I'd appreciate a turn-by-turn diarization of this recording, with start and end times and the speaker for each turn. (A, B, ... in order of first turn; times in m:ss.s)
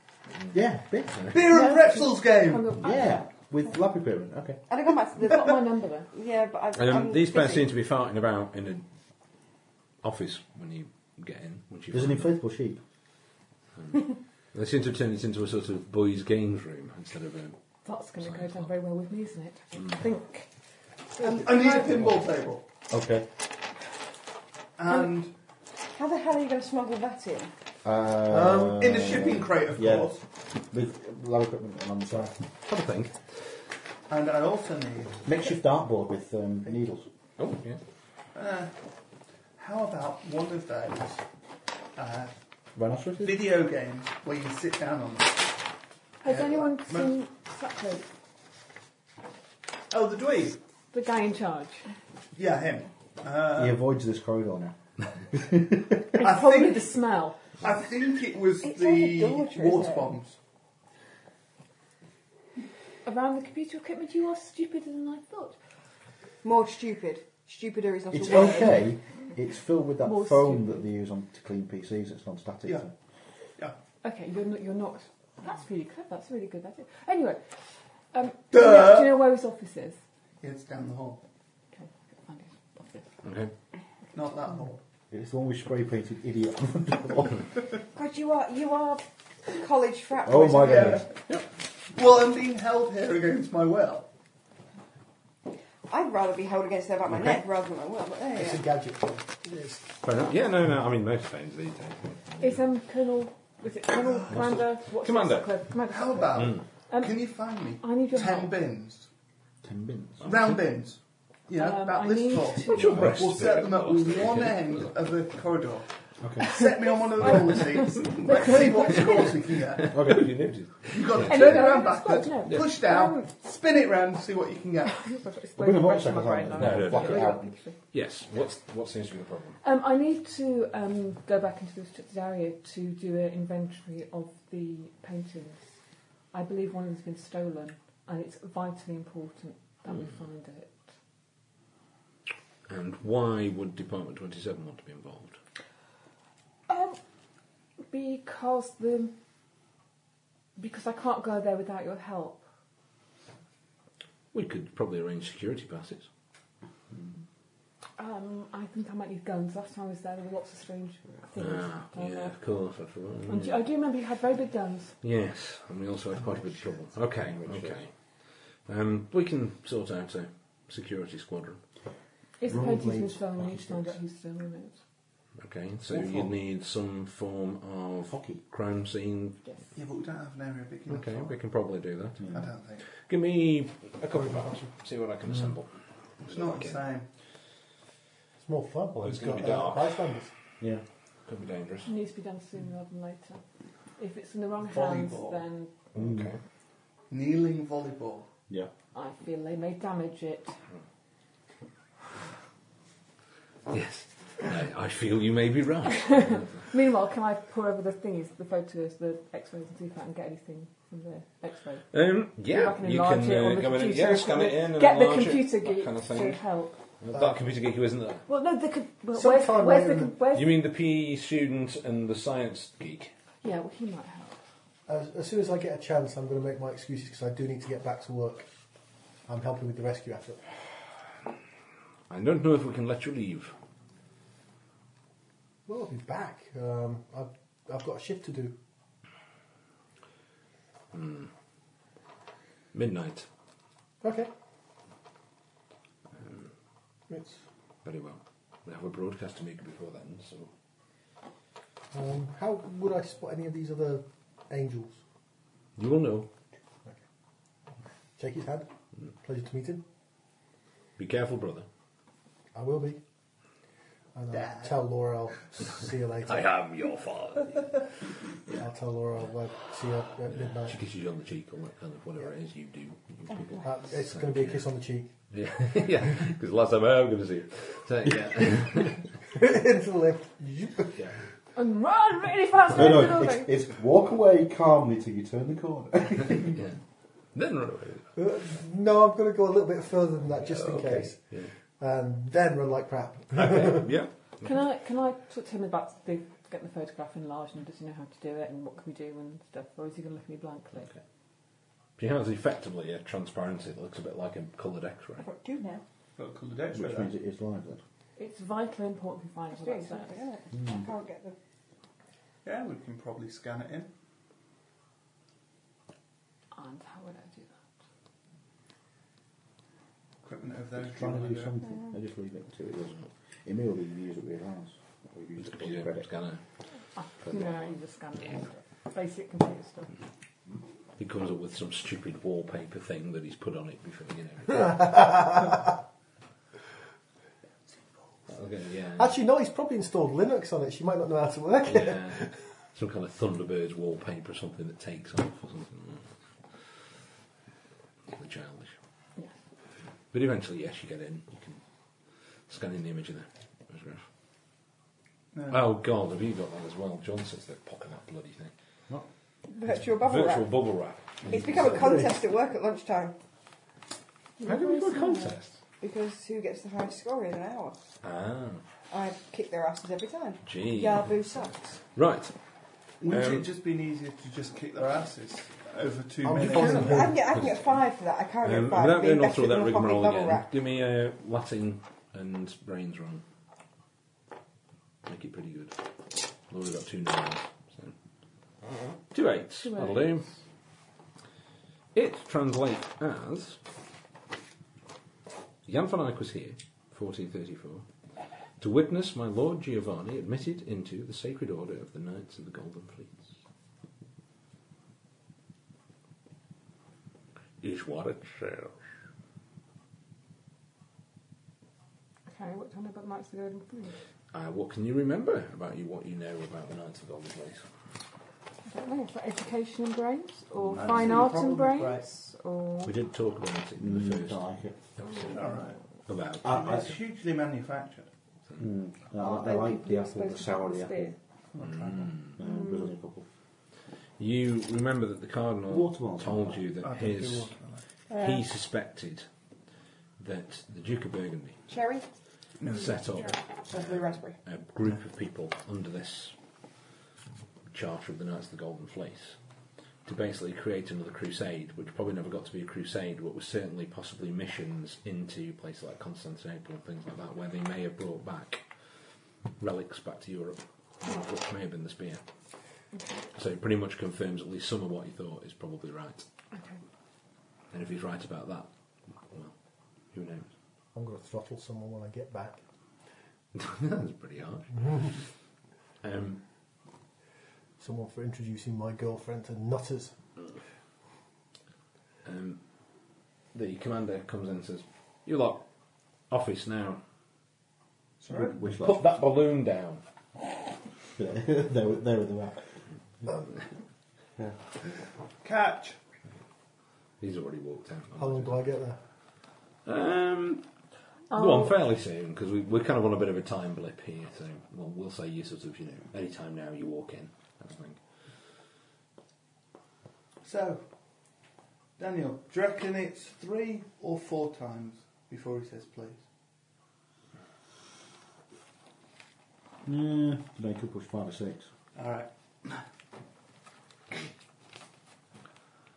0:00.5-0:01.4 A
0:01.3-0:02.8 B
0:01.5-0:03.2 C
0:02.8-0:04.6 A
0:04.7-0:05.6 D
0:05.2-0:06.1 C
0:06.1-0:07.7 D
0:06.7-0:08.8 E
0:10.0-0:12.3 E
0:11.9-0:12.8 A
0:13.8-0:17.6 E
0:17.8-0:20.5 C
0:18.2-0:18.7 E
0:19.8-0:20.0 E
0:21.2-0:22.0 C
0:21.2-0:22.6 B
0:22.9-0:23.3 A
0:24.8-0:25.3 B
0:25.9-0:27.5 D
0:27.8-0:32.3 A
0:28.3-0:28.8 F
0:28.8-0:30.2 B
0:32.7-0:33.2 E
0:34.1-0:35.4 B
0:35.2-0:37.1 A
0:37.4-0:37.8 E
0:38.3-0:38.7 B
0:39.6-0:41.2 B
0:42.0-0:42.3 B
0:42.8-0:43.5 A
0:43.2-0:45.5 B
0:46.2-0:48.0 C
0:46.2-0:47.2 B
0:49.9-0:50.6 B
0:50.9-0:51.8 C
0:52.3-0:53.8 B
0:53.6-0:54.8 A
0:55.3-0:56.2 A
0:56.2-0:57.6 C
0:56.2-0:57.0 B
0:57.6-1:00.4 B
0:58.6-1:00.2 D
1:03.0-1:05.6 C
1:06.4-1:08.8 D
1:08.1-1:12.9 A
1:10.0-1:10.8 C
1:14.0-1:17.4 C
1:18.1-1:20.0 C
1:18.5-1:19.3 B
1:20.4-1:21.2 B
1:21.7-1:23.1 C
1:23.2-1:23.5 E
1:24.1-1:24.8 B
1:25.1-1:27.5 A
1:27.9-1:31.0 D
1:30.2-1:31.1 A
1:30.6-1:31.1 B
1:31.9-1:34.1 B
1:35.9-1:38.6 D
1:38.4-1:39.8 F
1:40.0-1:42.6 E
1:42.4-1:47.2 C
1:44.3-1:45.5 E
1:45.9-1:49.1 B
1:46.3-1:46.6 E
1:47.8-1:48.5 C
1:49.6-1:50.4 A
1:50.2-1:55.9 B
1:51.6-1:53.1 C
1:52.6-1:54.9 E
1:56.2-1:56.5 A
1:56.4-2:00.0 B
1:56.5-1:59.4 C
1:59.8-2:01.8 E
1:59.9-2:00.3 A
2:00.9-2:05.1 B
2:01.2-2:03.3 C
2:04.9-2:07.8 C
2:05.6-2:07.6 A
2:06.6-2:07.3 E
2:07.9-2:09.6 E
2:09.6-2:15.6 C
2:16.3-2:20.8 C
2:22.7-2:25.4 E
2:26.7-2:27.0 C
2:27.9-2:29.1 C
2:30.6-2:32.4 C
2:34.3-2:36.1 E
2:38.0-2:42.3 C
2:41.4-2:43.6 E
2:43.3-2:44.9 C
2:45.0-2:47.9 E
2:47.2-2:47.8 A
2:48.6-2:51.6 E
2:52.4-2:54.8 C
2:52.4-2:54.0 A
2:55.4-2:59.4 E
2:55.9-2:56.3 A
2:58.1-2:58.4 A
2:59.7-3:01.4 B
3:00.9-3:02.3 E
3:02.2-3:02.5 A
3:02.3-3:02.8 B
3:03.0-3:05.7 E
3:04.1-3:04.6 F
3:06.2-3:07.1 B
3:06.2-3:06.8 E
3:08.4-3:10.3 F
3:09.0-3:10.0 E
3:11.2-3:11.9 E
3:11.8-3:13.4 C
3:14.0-3:15.7 C
3:14.6-3:15.4 B
3:15.9-3:16.4 E
3:16.0-3:16.3 A
3:17.1-3:18.3 B
3:18.9-3:20.6 C
3:23.7-3:26.6 E
3:25.9-3:31.9 C
3:31.9-3:36.4 E
3:32.4-3:36.8 C
3:37.0-3:38.2 E
3:38.3-3:40.6 C
3:39.1-3:40.1 F
3:40.3-3:43.1 E
3:43.4-3:44.4 C
3:44.9-3:48.5 F
3:49.3-3:50.4 F
3:52.1-3:53.5 E
3:55.7-3:58.6 F
4:00.9-4:01.3 E
4:02.7-4:03.3 E
4:04.0-4:04.3 F
4:06.2-4:06.5 E
4:07.1-4:07.4 F
4:07.8-4:10.5 E
4:11.9-4:15.0 F
4:15.8-4:16.3 E
4:18.2-4:18.7 F
4:19.2-4:19.8 F
4:21.0-4:21.6 E
4:22.5-4:23.0 F
4:24.1-4:26.5 F
4:24.3-4:24.7 B
4:26.2-4:27.8 E
4:28.5-4:30.8 F
4:30.3-4:34.6 E
4:33.6-4:35.1 F
4:35.3-4:39.0 E
4:39.3-4:41.0 F
4:41.5-4:43.5 C
4:42.7-4:46.6 A
4:47.3-4:48.0 E
4:48.2-4:51.2 F
4:50.4-4:51.5 E
4:51.8-4:53.9 F
4:53.3-4:54.5 E
4:54.4-5:00.9 C
5:02.0-5:05.2 E
5:05.2-5:05.8 D
5:06.2-5:07.1 B
5:06.7-5:07.8 A
5:08.2-5:10.2 C
5:09.5-5:11.3 D
5:10.5-5:10.9 A
5:12.4-5:13.9 B
5:16.5-5:17.5 C
5:20.2-5:21.6 B
5:20.8-5:26.1 A
5:25.4-5:26.4 E
5:26.9-5:29.9 C
5:27.2-5:27.7 E
5:31.0-5:35.0 E
5:34.6-5:35.6 F
5:38.3-5:39.2 E
5:39.0-5:42.4 F
5:41.6-5:46.7 E
5:48.1-5:48.7 E
5:50.1-5:51.6 E
5:52.5-5:54.0 E
5:55.3-5:55.7 B
5:55.5-5:58.5 E
5:59.5-6:00.5 D
6:00.0-6:02.0 E
6:01.3-6:03.1 D
6:01.8-6:02.0 F
6:04.4-6:05.4 C
6:04.4-6:05.6 E
6:05.8-6:07.8 D
6:08.0-6:08.6 E
6:08.9-6:11.6 D
6:10.4-6:12.3 E
6:13.0-6:17.0 B
6:13.1-6:13.4 E
6:16.2-6:17.2 F
6:16.4-6:17.7 E
6:16.6-6:20.4 D
6:18.4-6:23.2 E
6:25.0-6:25.7 E
6:26.5-6:27.9 E
6:29.1-6:30.2 E
6:29.6-6:30.2 C
6:31.9-6:33.6 E
6:35.6-6:37.8 E
6:38.6-6:43.3 E
6:47.6-6:48.8 E
6:52.3-6:54.0 C
6:54.3-6:57.6 E
6:58.6-7:02.9 C
7:00.6-7:01.0 E
7:00.7-7:02.1 B
7:02.8-7:04.4 E
7:03.8-7:04.8 A
7:05.0-7:05.4 E
7:05.3-7:05.8 B
7:06.1-7:06.8 E
7:06.4-7:07.0 A
7:06.4-7:08.1 B
7:08.6-7:11.1 A
7:09.2-7:11.2 C
7:11.5-7:12.2 B
7:11.6-7:12.3 E
7:12.3-7:13.2 A
7:12.4-7:12.9 C
7:14.2-7:17.5 E
7:15.7-7:16.6 A
7:16.8-7:17.8 B
7:18.1-7:18.4 D
7:18.1-7:19.2 E
7:20.2-7:21.6 E
7:21.7-7:22.0 D
7:22.6-7:23.3 B
7:22.7-7:26.3 E
7:23.7-7:24.4 D
7:27.7-7:29.4 E
7:30.0-7:38.6 E
7:39.6-7:42.2 E
7:42.9-7:43.2 C
7:43.3-7:46.2 E
7:46.5-7:46.8 C
7:47.7-7:48.7 E
7:49.2-7:49.5 E
7:50.1-7:50.5 E
7:50.9-7:52.6 F
7:53.5-7:55.2 E
7:56.0-7:56.4 E
7:57.8-8:00.1 F
8:02.2-8:02.6 E
8:03.5-8:05.6 E
8:06.3-8:07.0 E
8:08.2-8:08.6 B
8:08.3-8:09.1 A
8:08.8-8:10.0 E
8:11.2-8:12.6 A
8:15.4-8:16.0 B
8:17.2-8:18.6 E
8:18.2-8:19.0 F
8:19.8-8:20.6 E
8:21.3-8:21.7 C
8:21.3-8:28.0 E
8:30.4-8:30.8 B
8:32.0-8:36.2 B
8:39.8-8:41.7 A
8:42.0-8:42.8 B